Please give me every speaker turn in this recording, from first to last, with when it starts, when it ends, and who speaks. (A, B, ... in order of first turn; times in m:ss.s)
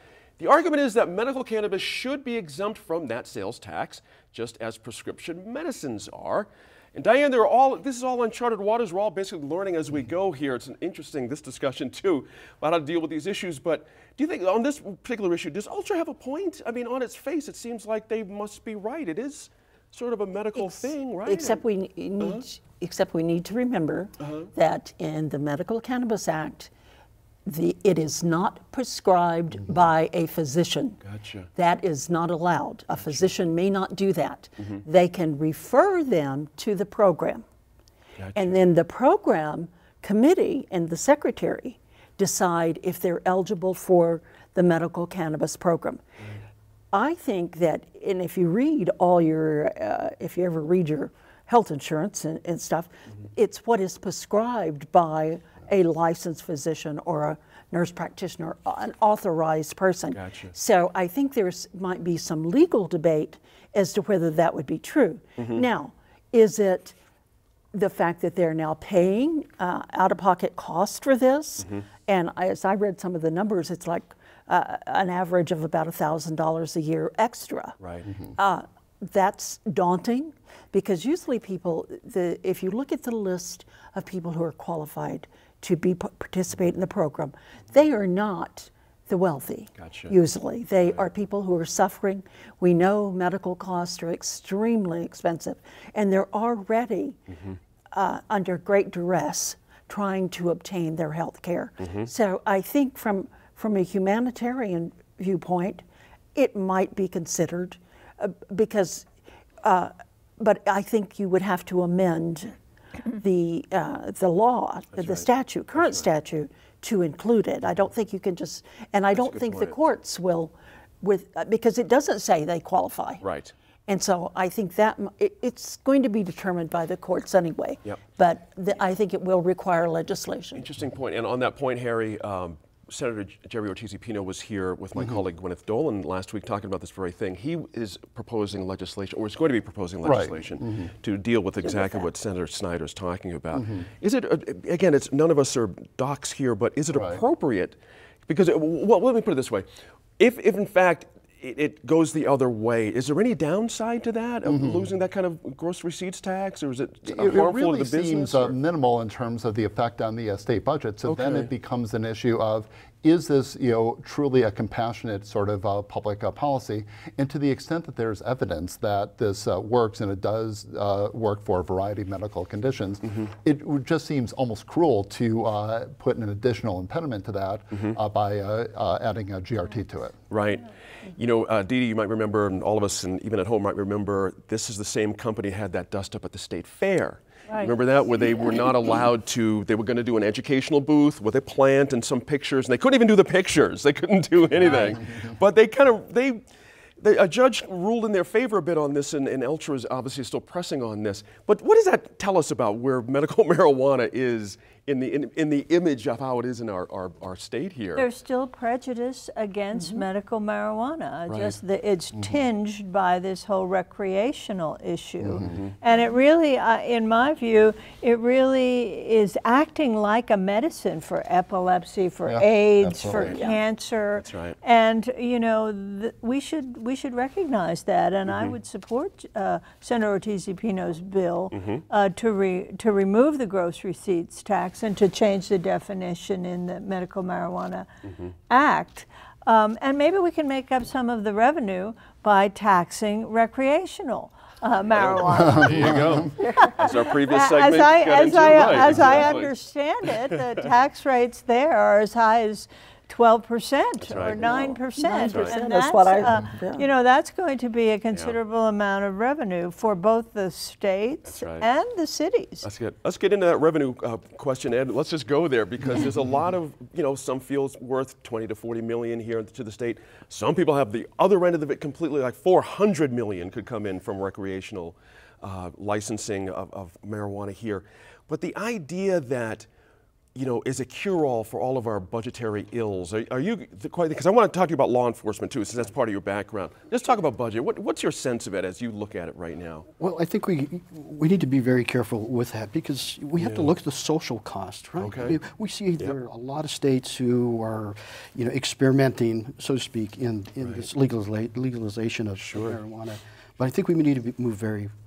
0:00.4-0:21.6 A
0:21.2-0:26.7 B
0:22.2-0:22.4 A
0:24.2-0:24.5 A
0:27.5-0:31.0 B
0:31.0-0:31.5 A
0:31.5-0:37.4 B
0:33.0-0:33.3 A
0:38.2-0:38.6 A
0:38.3-0:46.0 B
0:46.9-1:07.0 B
1:00.1-1:00.5 A
1:05.4-1:05.6 A
1:07.7-1:17.8 B
1:17.8-1:18.1 A
1:18.3-1:37.2 B
1:29.8-1:30.2 A
1:37.9-1:45.8 B
1:41.8-1:42.1 A
1:46.3-1:49.1 B
1:49.6-1:52.6 B
1:53.1-2:03.2 B
1:55.0-1:55.3 A
1:59.1-1:59.8 A
2:03.2-2:03.5 A
2:03.9-2:10.6 B
2:10.5-2:29.7 A
2:20.0-2:20.9 C
2:23.5-2:23.8 C
2:26.9-2:27.2 C
2:30.2-2:38.6 A
2:34.4-2:34.9 C
2:37.0-3:00.2 C
2:41.0-2:41.5 A
2:57.7-2:58.0 A
3:00.3-3:16.4 A
3:07.5-3:07.7 D
3:14.6-3:15.0 D
3:17.0-3:28.1 A
3:28.0-3:57.9 D
3:31.3-3:31.6 A
3:35.4-3:35.7 A
3:42.3-3:43.4 C
3:43.2-3:43.6 B
3:44.2-3:44.6 A
3:48.3-3:48.5 A
3:51.5-3:51.8 A
3:58.5-4:22.7 D
4:04.9-4:09.5 A
4:14.0-4:14.5 A
4:14.3-4:16.9 B
4:15.3-4:15.6 A
4:21.2-4:21.7 A
4:22.6-4:39.7 A
4:40.4-4:49.9 A
4:50.0-5:04.9 E
4:53.4-4:53.7 A
4:55.0-4:55.4 A
5:02.4-5:02.8 A